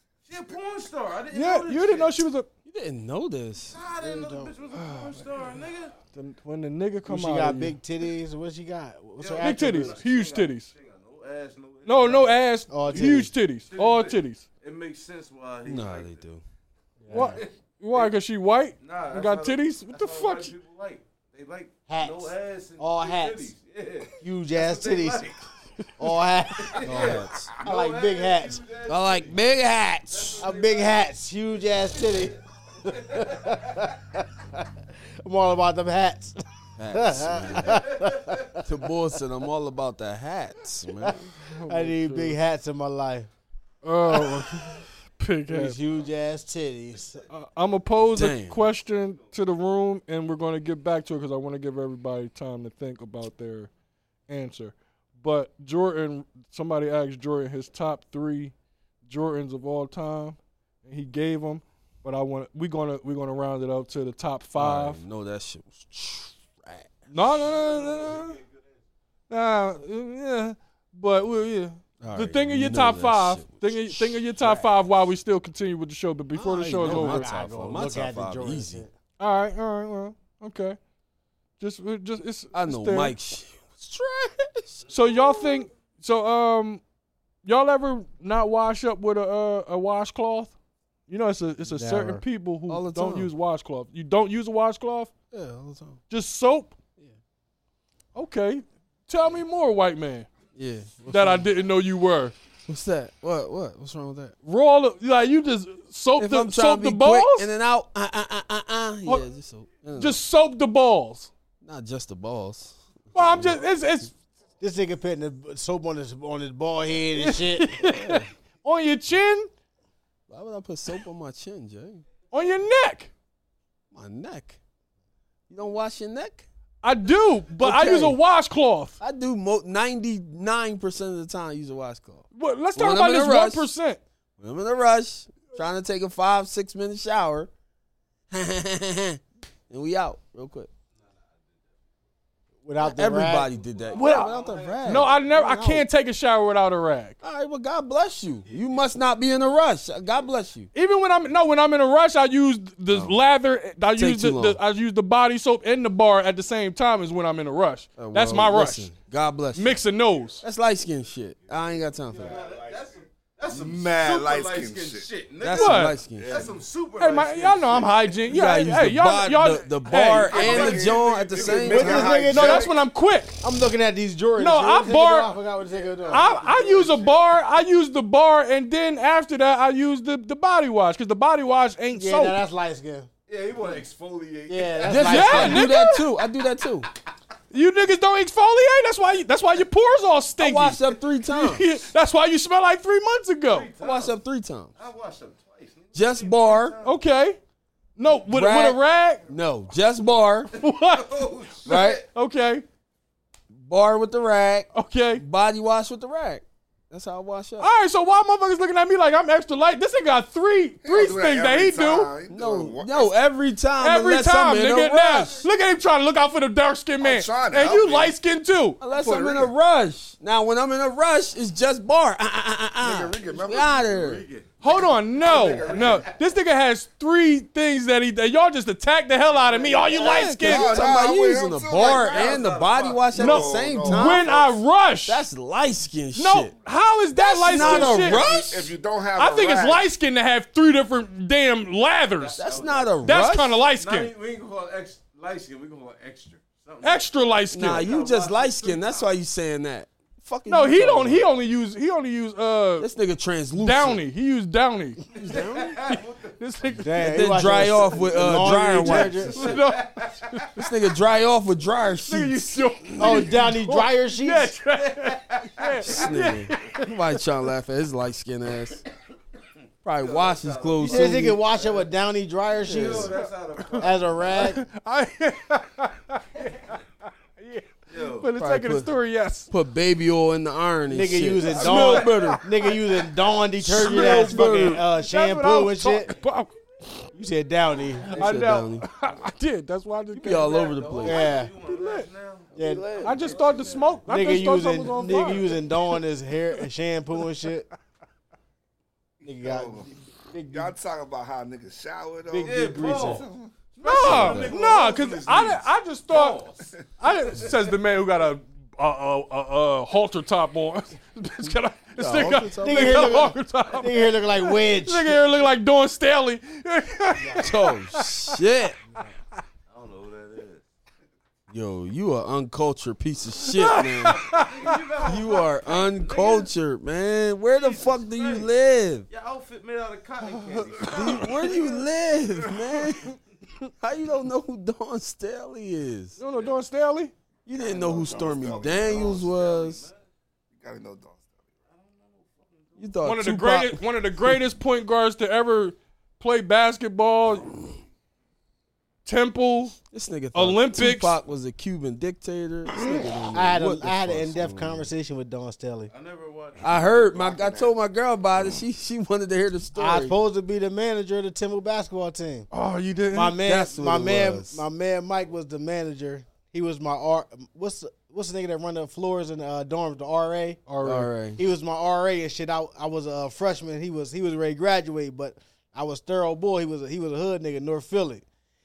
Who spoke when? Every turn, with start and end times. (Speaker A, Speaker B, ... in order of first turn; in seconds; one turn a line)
Speaker A: 0.2-2.2
Speaker B: 1.3-2.5
Speaker C: 2.6-3.8
Speaker A: 3.6-5.9
Speaker D: 4.0-4.5
Speaker B: 4.7-5.2
Speaker B: 6.1-7.8
Speaker D: 7.0-10.0
Speaker A: 9.2-12.4
Speaker B: 9.4-10.7
Speaker B: 11.8-14.4
Speaker D: 12.7-13.3
Speaker A: 13.7-16.2
Speaker C: 15.6-16.4
Speaker D: 17.0-17.4
Speaker A: 17.1-18.1
Speaker B: 17.1-20.5
Speaker A: 18.8-25.4
Speaker D: 21.9-23.5
Speaker D: 24.2-25.3
Speaker D: 26.0-28.6
Speaker A: 26.6-29.4
Speaker C: 26.8-27.5
Speaker C: 28.9-30.4
Speaker A: 30.1-31.1
Speaker D: 30.4-36.4
Speaker A: 31.8-33.9
Speaker C: 36.8-37.9
Speaker D: 36.9-38.8
Speaker A: 37.7-38.5
Speaker C: 38.6-41.2
Speaker D: 41.0-43.3
Speaker B: 41.4-42.4
Speaker B: 43.8-45.8
Speaker D: 44.1-44.5
Speaker D: 45.5-47.2
Speaker B: 47.3-53.7
Speaker C: 48.1-48.7
Speaker B: 54.3-58.5
Speaker B: 59.1-65.0
Speaker C: 64.5-66.9
Speaker B: 67.1-68.4
Speaker A: 67.4-68.6
Speaker B: 69.3-77.2
Speaker C: 72.0-74.7
Speaker C: 76.3-78.8
Speaker D: 76.8-78.9
Speaker B: 79.2-80.8
Speaker B: 81.6-83.1
Speaker C: 82.5-85.5
Speaker B: 84.9-86.8
Speaker B: 87.4-90.5
Speaker B: 91.1-95.1
Speaker D: 91.7-92.2
Speaker C: 92.7-93.3
Speaker C: 95.3-96.0
Speaker B: 96.1-96.7
Speaker B: 98.1-100.3
Speaker C: 100.5-101.5
Speaker B: 101.1-102.3
Speaker C: 102.7-104.3
Speaker B: 104.4-107.5
Speaker C: 106.2-110.2
Speaker B: 110.0-111.3
Speaker C: 111.6-113.6
Speaker B: 113.1-114.1
Speaker D: 114.6-117.8
Speaker B: 117.2-119.5
Speaker C: 117.8-118.2
Speaker C: 120.3-122.0
Speaker B: 122.3-123.1
Speaker C: 123.9-124.6
Speaker C: 125.5-126.5
Speaker B: 126.8-129.0
Speaker C: 127.6-128.2
Speaker C: 129.0-133.7
Speaker B: 132.3-134.0
Speaker C: 134.4-137.5
Speaker C: 138.3-140.7
Speaker D: 142.6-143.5
Speaker C: 142.8-145.8
Speaker A: 143.5-145.5
Speaker B: 143.9-147.2
Speaker C: 147.2-150.7
Speaker A: 148.5-148.9
Speaker B: 150.7-158.9
Speaker C: 152.9-153.2
Speaker C: 153.9-154.6
Speaker C: 158.0-159.8
Speaker B: 159.5-160.4
Speaker C: 160.4-162.4
Speaker A: 161.4-168.3
Speaker E: 162.2-162.9
Speaker E: 163.5-165.1
Speaker C: 165.4-166.4
Speaker B: 165.5-165.9
Speaker E: 166.1-166.6
Speaker B: 167.0-170.7
Speaker C: 168.3-172.2
Speaker A: 170.2-172.1
Speaker E: 170.3-172.8
Speaker D: 171.7-172.7
Speaker B: 172.1-173.4
Speaker D: 173.4-176.3
Speaker B: 174.4-175.3
Speaker A: 175.6-177.3
Speaker B: 176.1-182.4
Speaker D: 181.9-183.1
Speaker A: 183.3-185.6
Speaker D: 184.5-185.6
Speaker C: 184.8-186.9
Speaker B: 185.0-186.1
Speaker B: 187.5-193.7
Speaker C: 190.4-191.8
Speaker A: 193.4-194.2
Speaker C: 193.8-194.7
Speaker A: 194.8-197.0
Speaker C: 195.9-196.8
Speaker B: 196.8-197.4
Speaker B: 198.0-199.2
Speaker C: 198.3-200.5
Speaker A: 200.5-202.1
Speaker B: 200.5-202.7
Speaker C: 201.6-202.0
Speaker C: 203.5-207.7
Speaker B: 204.7-205.2
Speaker B: 207.6-212.1
Speaker E: 210.8-213.1
Speaker C: 212.3-215.4
Speaker B: 213.8-218.9
Speaker E: 217.0-218.2
Speaker C: 218.8-224.2
Speaker E: 218.9-219.5
Speaker E: 222.8-223.8
Speaker A: 223.2-226.2
Speaker B: 224.6-230.8
Speaker E: 225.3-226.1
Speaker A: 229.3-230.2
Speaker C: 229.9-234.3
Speaker E: 230.0-234.6
Speaker A: 231.7-233.2
Speaker B: 233.2-235.2
Speaker C: 235.1-236.5
Speaker B: 236.2-238.3
Speaker C: 237.1-238.7
Speaker E: 237.5-239.9
Speaker B: 239.2-242.5
Speaker A: 242.2-247.1
Speaker C: 242.4-243.6
Speaker B: 243.0-244.1
Speaker B: 246.8-247.9
Speaker C: 247.5-251.3
Speaker A: 247.7-249.1
Speaker B: 250.5-252.9
Speaker C: 252.8-254.0
Speaker B: 253.5-255.0
Speaker C: 255.1-255.8
Speaker A: 255.2-256.8
Speaker B: 255.8-257.2
Speaker D: 256.8-259.4
Speaker C: 257.0-259.6
Speaker A: 257.9-260.4
Speaker B: 259.3-260.6
Speaker C: 260.6-262.5
Speaker B: 262.1-266.9
Speaker D: 263.0-264.5
Speaker A: 264.8-266.2
Speaker C: 265.8-268.8
Speaker C: 269.8-271.4
Speaker A: 270.0-271.9
Speaker D: 270.8-273.1
Speaker A: 272.6-274.5
Speaker C: 272.6-273.1
Speaker B: 273.6-273.8
Speaker D: 273.8-274.6
Speaker B: 274.4-276.8
Speaker B: 277.4-279.5
Speaker A: 277.9-278.3
Speaker C: 278.4-278.9
Speaker C: 279.5-282.4
Speaker D: 280.9-286.1
Speaker A: 281.4-282.8
Speaker B: 283.6-287.1
Speaker C: 283.6-284.8
Speaker D: 287.1-288.2
Speaker B: 288.1-290.8
Speaker C: 288.2-288.9
Speaker C: 290.1-291.3
Speaker A: 290.2-294.1
Speaker D: 291.0-291.5
Speaker B: 291.6-292.1
Speaker D: 292.5-292.9
Speaker C: 292.6-293.4
Speaker B: 293.0-295.6
Speaker D: 294.1-297.7
Speaker E: 299.2-299.9
Speaker D: 299.2-300.7
Speaker E: 300.5-303.5
Speaker D: 302.3-303.2
Speaker A: 302.4-307.5
Speaker B: 303.8-306.4
Speaker C: 304.0-304.5
Speaker B: 307.0-318.3
Speaker C: 312.0-313.2
Speaker D: 312.0-315.2
Speaker D: 317.2-317.4
Speaker C: 317.4-318.8
Speaker A: 319.7-320.6
Speaker C: 321.5-324.2
Speaker B: 323.5-324.8
Speaker A: 323.8-326.5
Speaker C: 325.0-329.1
Speaker A: 327.5-328.5
Speaker A: 329.1-331.8
Speaker B: 330.2-331.4
Speaker C: 330.9-333.1
Speaker C: 333.8-336.2
Speaker B: 336.2-337.1
Speaker C: 337.4-339.9
Speaker E: 337.6-339.2
Speaker A: 337.7-340.0
Speaker E: 340.5-341.4
Speaker A: 341.6-343.0
Speaker C: 342.8-344.4
Speaker B: 343.0-347.5
Speaker B: 349.0-349.8
Speaker C: 349.9-354.9
Speaker B: 350.3-351.2
Speaker D: 352.8-355.9
Speaker A: 355.9-357.3
Speaker C: 356.6-360.2
Speaker E: 357.1-357.7
Speaker D: 359.7-362.5
Speaker B: 362.5-363.4
Speaker D: 363.1-370.6
Speaker C: 363.4-364.6
Speaker B: 370.7-371.1
Speaker C: 370.8-371.4
Speaker D: 371.4-378.2